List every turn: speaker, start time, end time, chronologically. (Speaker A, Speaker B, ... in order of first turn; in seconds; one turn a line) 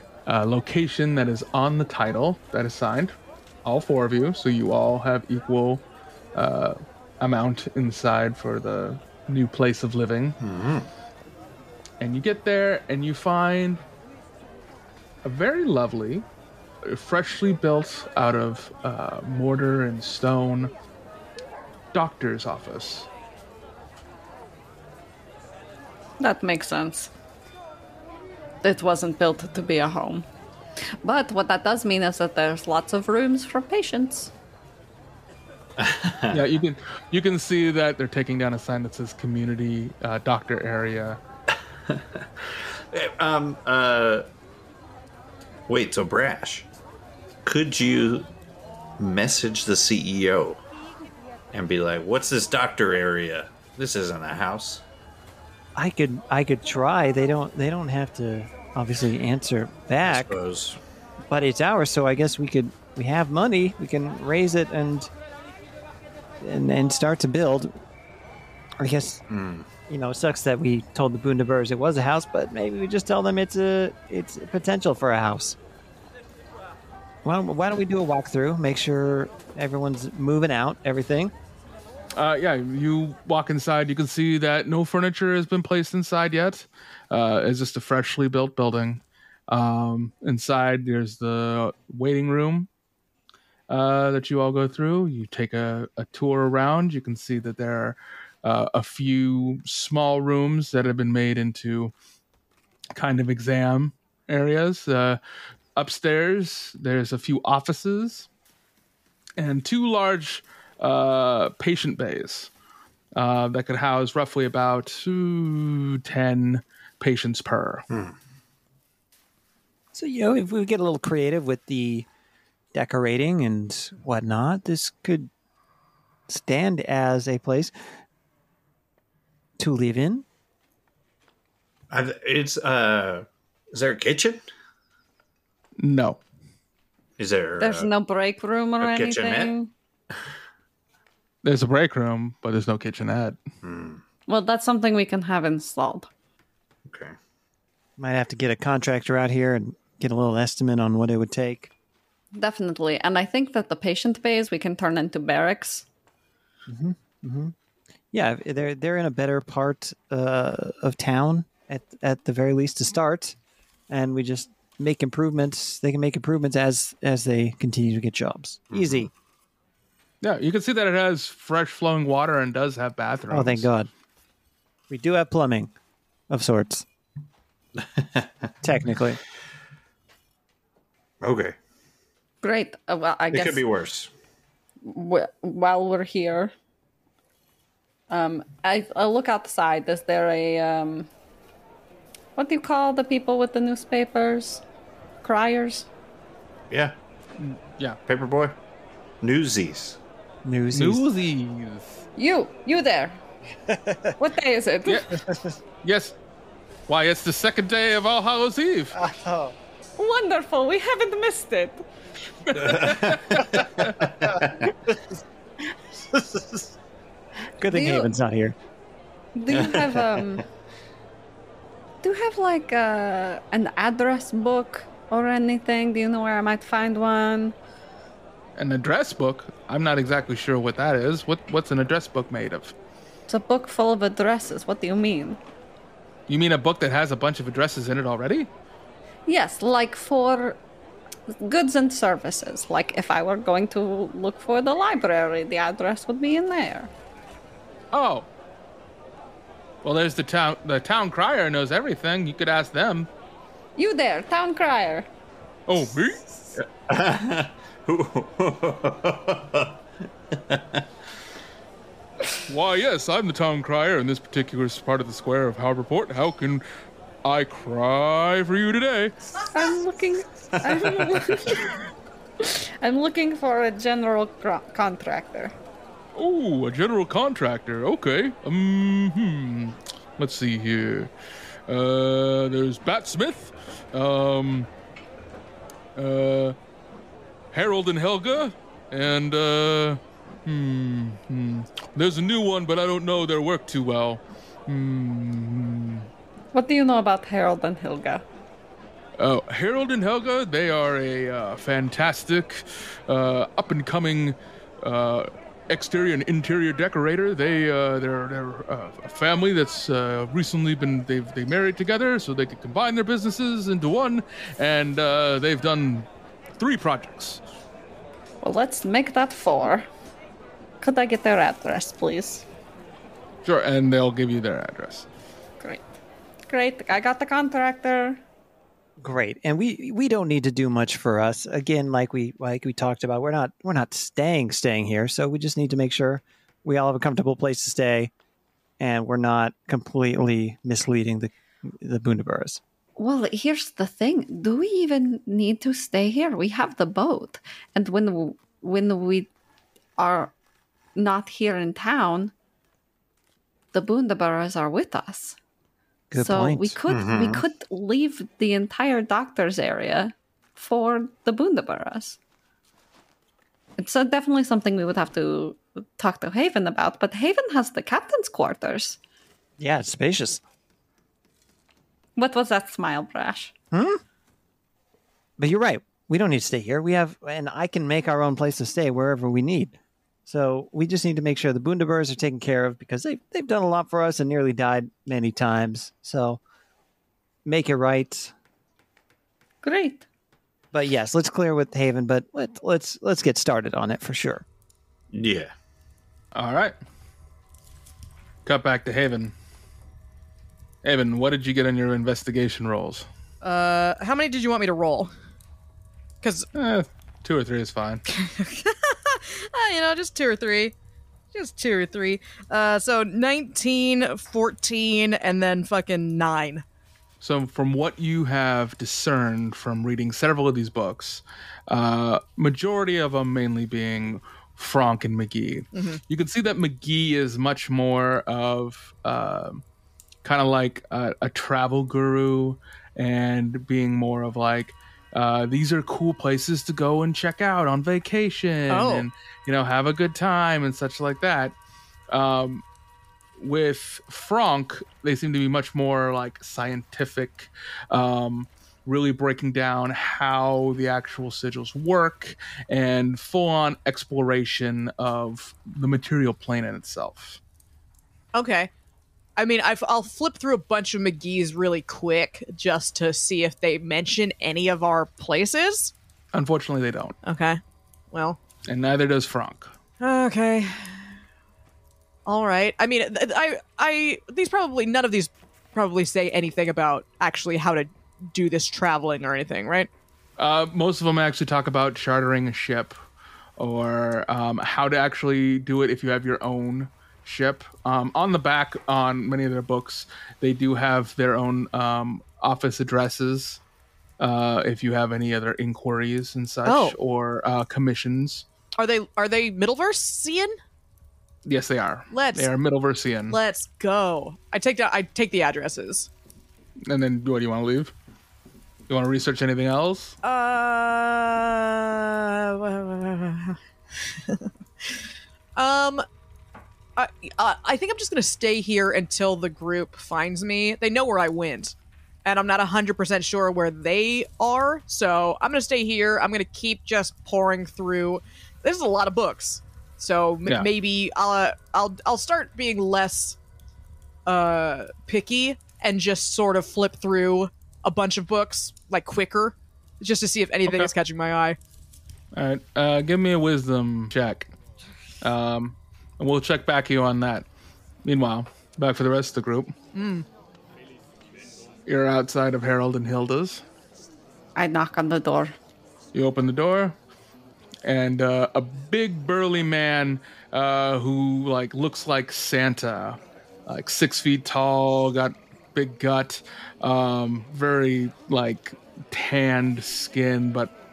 Speaker A: 0.2-10.4
Speaker B: 10.4-10.9
Speaker A: 12.0-13.8
Speaker A: 15.2-16.2
Speaker A: 16.8-20.7
Speaker A: 21.9-23.1
Speaker C: 26.2-27.1
Speaker C: 28.6-30.2
Speaker C: 31.0-34.3
Speaker B: 35.8-36.4
Speaker A: 36.3-41.2
Speaker B: 41.9-42.2
Speaker B: 42.9-44.3
Speaker B: 45.7-46.7
Speaker B: 47.4-48.3
Speaker B: 49.0-50.6
Speaker B: 51.5-54.8
Speaker D: 55.8-60.4
Speaker B: 60.0-60.8
Speaker D: 61.3-65.1
Speaker D: 66.4-67.7
Speaker D: 68.8-69.2
Speaker B: 69.3-69.7
Speaker D: 69.9-75.6
Speaker D: 77.2-81.3
Speaker A: 82.2-92.7
Speaker A: 93.7-101.9
Speaker A: 102.9-105.2
Speaker A: 105.8-108.3
Speaker A: 109.4-112.5
Speaker A: 113.1-117.8
Speaker D: 119.9-122.1
Speaker D: 122.7-125.3
Speaker D: 126.3-127.7
Speaker D: 129.6-130.2
Speaker B: 131.9-134.4
Speaker A: 135.8-136.2
Speaker B: 137.2-137.9
Speaker C: 137.6-139.7
Speaker B: 138.8-139.5
Speaker A: 141.4-143.4
Speaker B: 143.6-144.0
Speaker C: 144.3-146.1
Speaker B: 146.9-147.1
Speaker D: 148.0-151.7
Speaker C: 152.3-155.8
Speaker D: 156.7-157.5
Speaker D: 158.1-163.3
Speaker D: 163.9-169.1
Speaker B: 168.7-169.1
Speaker A: 170.2-173.7
Speaker D: 173.3-173.9
Speaker D: 174.9-175.7
Speaker D: 176.3-176.8
Speaker B: 178.0-178.3
Speaker D: 178.6-179.2
Speaker B: 181.2-181.6
Speaker C: 182.4-183.6
Speaker B: 183.3-184.1
Speaker C: 184.8-186.5
Speaker C: 188.1-191.1
Speaker C: 192.3-194.6
Speaker C: 195.2-195.9
Speaker B: 196.7-196.9
Speaker A: 197.4-198.0
Speaker B: 198.1-198.6
Speaker B: 199.2-200.0
Speaker D: 200.4-201.1
Speaker A: 200.7-202.0
Speaker C: 202.2-203.2
Speaker D: 203.7-204.1
Speaker C: 204.2-205.1
Speaker A: 204.9-205.2
Speaker D: 205.2-205.5
Speaker A: 205.8-206.1
Speaker A: 206.9-209.0
Speaker D: 208.9-209.5
Speaker C: 210.0-211.8
Speaker A: 212.4-213.9
Speaker B: 212.5-213.2
Speaker D: 213.6-215.0
Speaker D: 216.1-216.7
Speaker D: 217.6-218.6
Speaker C: 217.7-218.1
Speaker C: 219.3-220.4
Speaker B: 219.6-219.9
Speaker C: 222.0-227.5
Speaker A: 228.6-232.7
Speaker C: 233.3-235.4
Speaker A: 236.3-238.5
Speaker C: 239.3-240.6
Speaker C: 241.4-246.9
Speaker A: 247.9-248.3
Speaker A: 249.8-253.1
Speaker C: 253.8-255.1
Speaker A: 255.7-256.2
Speaker B: 256.6-259.8
Speaker B: 260.3-260.8
Speaker A: 262.5-266.6
Speaker A: 267.2-269.2
Speaker C: 269.5-271.8
Speaker B: 270.6-271.1
Speaker C: 272.4-275.5
Speaker A: 276.1-281.1
Speaker A: 281.7-284.7
Speaker A: 285.9-286.6
Speaker A: 287.5-296.1
Speaker C: 296.5-298.2
Speaker A: 299.2-316.1
Speaker A: 316.6-317.4
Speaker C: 318.4-319.9
Speaker C: 320.8-322.4
Speaker A: 323.4-325.1
Speaker C: 326.5-328.2
Speaker D: 329.0-338.1
Speaker D: 338.8-342.6
Speaker C: 343.0-349.3
Speaker C: 350.0-350.3
Speaker C: 350.9-352.3
Speaker C: 353.7-355.4
Speaker D: 356.1-356.8
Speaker C: 356.1-362.2
Speaker B: 356.9-357.4
Speaker C: 363.8-369.0
Speaker D: 369.6-370.4
Speaker C: 372.1-373.5
Speaker D: 373.7-374.0
Speaker D: 375.4-379.8
Speaker D: 380.3-386.4
Speaker D: 387.4-388.3
Speaker C: 389.6-390.0
Speaker D: 390.7-394.4
Speaker B: 395.1-395.5
Speaker A: 396.3-396.7
Speaker A: 398.4-399.3
Speaker A: 400.8-403.1
Speaker E: 403.4-405.1
Speaker E: 406.2-406.5
Speaker A: 406.5-408.0
Speaker E: 408.1-410.7
Speaker E: 411.3-416.6
Speaker A: 417.2-429.6
Speaker A: 430.2-441.5
Speaker E: 438.7-439.1
Speaker A: 442.1-442.6
Speaker A: 443.4-457.4
Speaker E: 458.3-458.7
Speaker E: 459.4-465.9
Speaker A: 466.3-467.2
Speaker E: 467.2-467.6
Speaker E: 468.1-468.4
Speaker A: 468.7-469.7
Speaker E: 470.0-471.1
Speaker E: 472.2-479.9
Speaker A: 480.4-482.9
Speaker A: 483.6-493.6
Speaker A: 494.2-498.4
Speaker E: 496.6-496.9
Speaker E: 498.8-500.6
Speaker A: 501.4-503.4
Speaker E: 502.1-502.5
Speaker E: 503.3-506.1
Speaker A: 506.9-507.9
Speaker A: 508.9-510.1
Speaker E: 510.2-513.6
Speaker E: 514.1-514.5
Speaker E: 515.5-516.0
Speaker E: 517.0-533.4
Speaker E: 534.2-541.6
Speaker A: 540.7-540.9
Speaker A: 542.3-544.5
Speaker A: 545.2-547.5
Speaker A: 548.0-549.7
Speaker E: 549.9-550.2
Speaker A: 551.9-553.6
Speaker C: 554.5-555.5
Speaker A: 556.1-556.9
Speaker A: 557.8-570.7